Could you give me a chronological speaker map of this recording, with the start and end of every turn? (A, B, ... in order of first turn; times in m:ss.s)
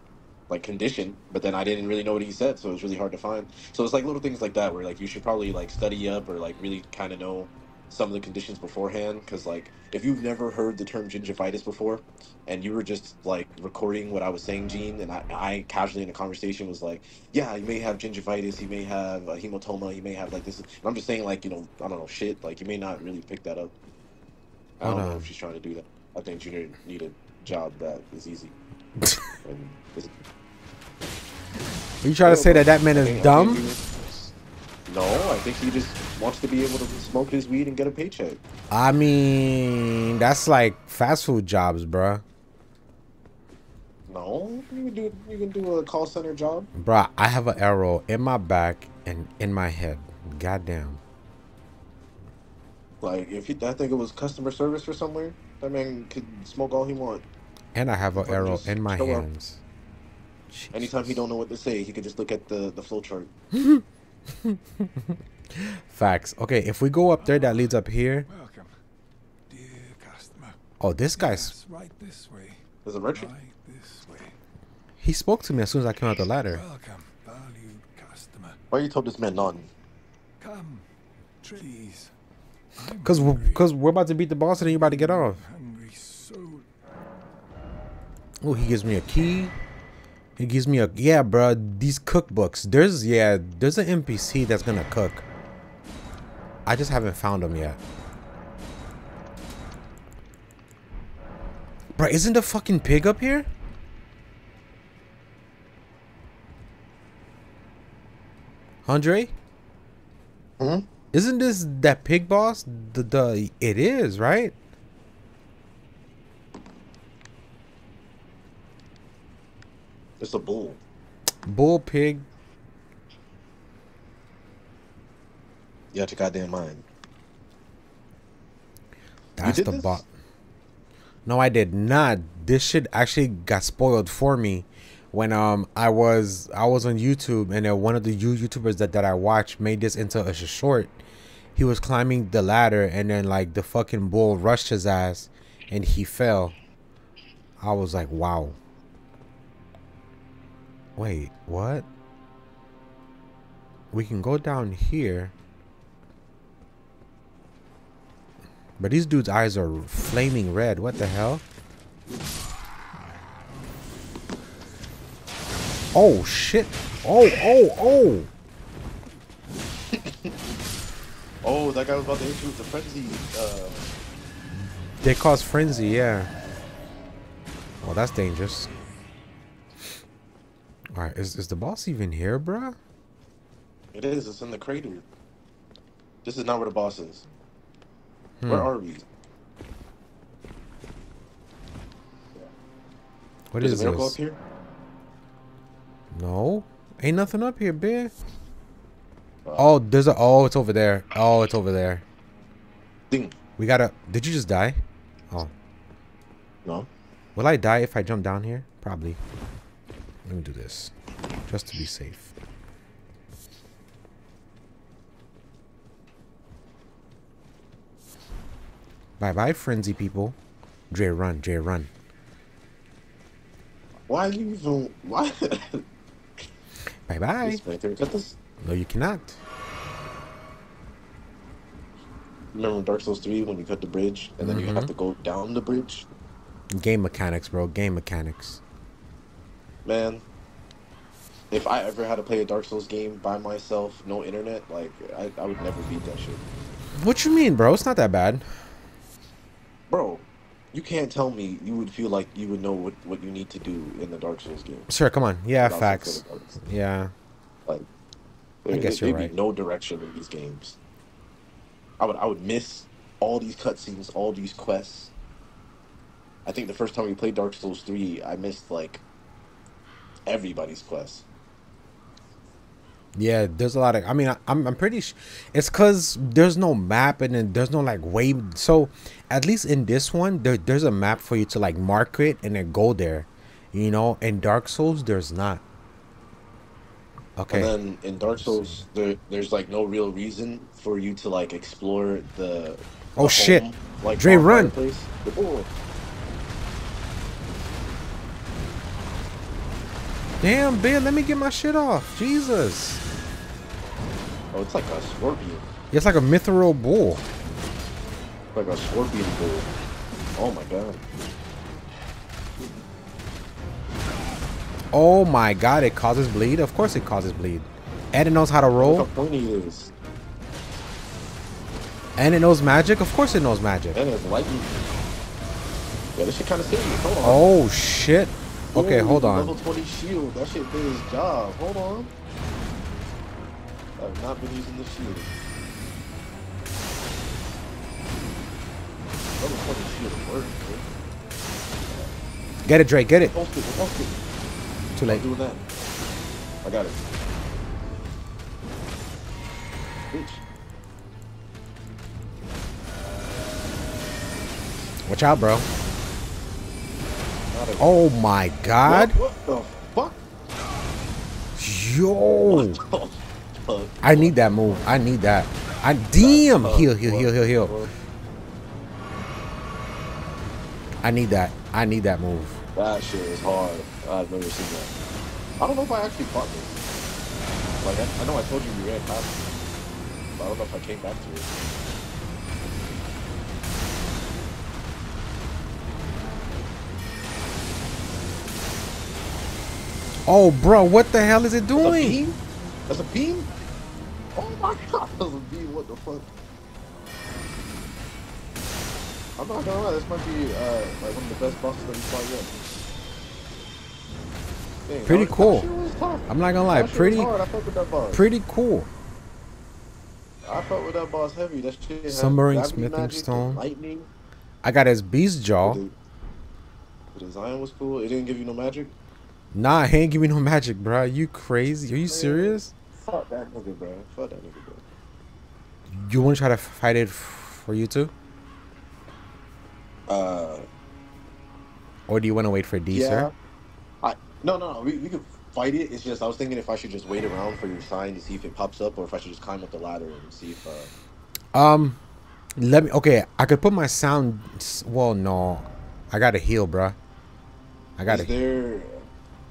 0:00.5-0:23.7 A
0:24.8-0:28.5 A
0:24.8-0:25.3 B
0:29.4-0:30.1 A
0:32.0-0:33.7 B
0:32.2-0:33.8 A
0:34.9-0:38.4 A
0:38.7-0:42.2 B
0:44.1-0:46.7 A
0:46.7-0:51.0 B
0:53.0-0:57.2 A
0:57.7-0:59.6 B
0:58.1-0:59.3 A
1:00.5-1:01.2 B
1:00.7-1:03.3 A
1:03.5-1:03.8 B
1:04.4-1:08.3 B
1:07.2-1:08.7 C
1:09.5-1:10.6 C
1:10.8-1:11.5 B
1:11.1-1:12.6 C
1:12.8-1:13.3 A
1:13.1-1:14.4 C
1:15.0-1:16.6 B
1:16.5-1:18.6 C
1:18.7-1:19.7 A
1:20.4-1:20.8 C
1:21.4-1:22.1 C
1:22.7-1:23.7 C
1:23.0-1:25.4 B
1:24.5-1:26.7 C
1:28.4-1:29.5 B
1:30.4-1:35.2 B
1:36.6-1:37.8 B
1:42.0-1:43.5 B
1:48.8-1:49.3 B
1:50.6-1:50.9 A
1:51.1-1:54.5 B
2:00.2-2:00.8 A
2:01.5-2:02.3 B
2:05.9-2:06.8 A
2:09.4-2:10.0 B
2:09.4-2:10.0 A
2:11.2-2:21.0 B
2:21.5-2:26.6 B
2:27.6-2:28.6 B
2:31.0-2:31.9 B
2:33.9-2:35.3 B
2:38.8-2:41.4 B
2:45.9-2:48.3 B
2:49.9-2:50.3 A
2:51.4-2:53.9 A
2:54.5-2:56.3 B
2:57.8-2:58.7 B
3:00.9-3:02.8 B
3:03.9-3:05.0 A
3:06.2-3:07.2 A
3:08.4-3:08.7 B
3:08.5-3:09.0 A
3:13.5-3:14.2 B
3:13.6-3:14.4 A
3:16.1-3:18.1 B
3:19.6-3:22.0 B
3:23.1-3:23.4 A
3:23.6-3:25.5 B
3:27.4-3:29.2 B
3:30.2-3:30.9 B
3:31.5-3:32.3 B
3:39.2-3:40.4 B
3:40.9-3:41.9 B
3:44.1-3:45.8 A
3:47.1-3:47.6 B
3:47.4-3:48.4 A
3:48.6-3:49.4 B
3:52.5-3:56.1 A
3:54.4-3:54.9 B
3:56.7-3:58.6 B
3:59.8-4:00.2 A
4:01.5-4:06.4 A
4:07.0-4:08.5 B
4:09.9-4:14.9 A
4:14.9-4:17.1 B
4:15.6-4:16.6 A
4:18.6-4:20.8 A
4:18.7-4:19.3 B
4:22.0-4:25.1 A
4:26.4-4:29.0 A
4:30.3-4:31.2 A
4:33.1-4:45.6 B
4:47.4-4:47.7 B
4:47.5-4:55.7 A
4:53.2-4:54.7 B
5:00.4-5:03.0 B
5:04.5-5:05.7 A
5:05.9-5:07.2 B
5:08.5-5:09.7 A
5:10.4-5:11.0 A
5:14.9-5:19.1 B
5:18.8-5:19.9 A
5:22.2-5:24.0 B
5:23.9-5:24.8 A
5:26.2-5:27.5 A
5:27.2-5:29.6 B
5:28.7-5:32.1 A
5:34.0-5:35.3 A
5:39.4-5:40.9 A
5:42.6-5:43.3 B
5:43.2-5:44.2 A
5:44.9-5:45.2 B
5:45.1-5:45.6 A
5:46.6-5:47.0 A
5:50.1-5:50.4 A
5:55.0-5:55.7 B
5:57.5-5:58.0 A
5:57.8-5:59.2 B
5:58.8-6:00.2 A
6:01.6-6:02.8 B
6:02.4-6:04.9 A
6:04.0-6:07.9 B
6:06.2-6:07.9 A
6:11.0-6:12.6 B
6:12.7-6:14.9 A
6:15.6-6:16.8 A
6:17.8-6:19.4 A
6:20.4-6:21.5 A
6:30.3-6:32.2 B
6:31.8-6:33.5 A
6:34.3-6:36.3 A
6:39.4-6:42.6 A
6:44.8-6:48.3 A
6:45.0-6:45.7 B
6:46.3-6:47.3 B
6:48.1-6:48.9 B
6:50.4-6:54.1 A
6:52.1-6:53.6 B
6:54.6-6:55.8 B
6:55.6-6:55.9 A
6:57.1-6:58.9 A
6:59.5-7:02.7 B
7:02.1-7:04.8 A
7:05.9-7:08.1 B
7:10.1-7:10.7 A
7:12.1-7:13.3 B
7:12.9-7:13.3 A
7:14.0-7:20.9 A
7:21.5-7:22.0 B
7:22.6-7:27.0 B
7:28.0-7:28.3 B
7:28.1-7:29.0 A